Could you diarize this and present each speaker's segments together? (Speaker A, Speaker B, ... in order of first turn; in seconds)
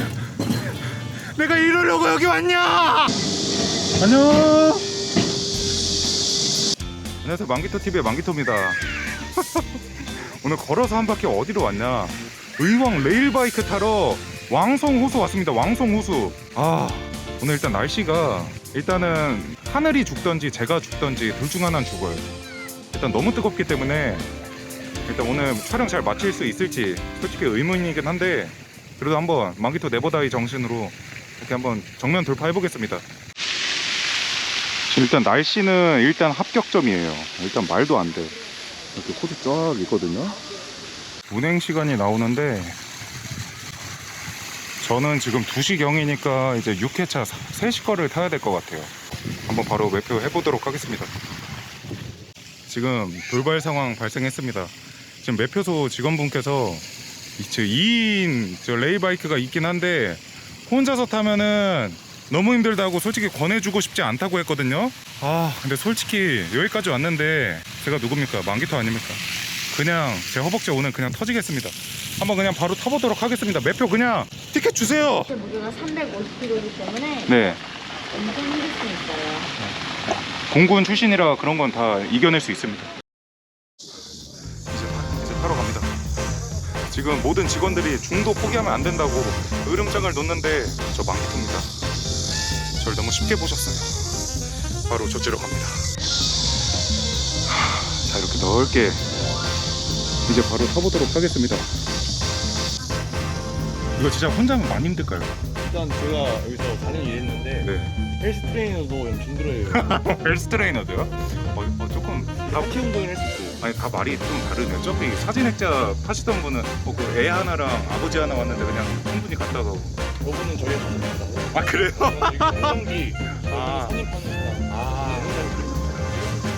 Speaker A: 0.9-3.2, 4.0-4.9, 7.2-22.3, 22.9-24.3, 25.1-33.0, 34.9-38.4, 38.9-40.4, 41.3-42.8, 44.8-48.9, 49.5-51.1, 52.7-56.9, 57.4-75.3, 77.3-77.6, 80.5-82.9, 84.7-85.9, 86.8-91.7, 92.8-94.2, 94.8-95.9, 97.5-99.0, 100.2-101.7, 104.0-105.4, 107.6-108.0, 109.7-112.8, 113.6-120.0, 121.5-122.8, 123.3-124.0
Speaker B: 75.3-77.3, 78.1-79.5
Speaker C: 105.6-110.1, 112.5-113.6, 120.2-126.1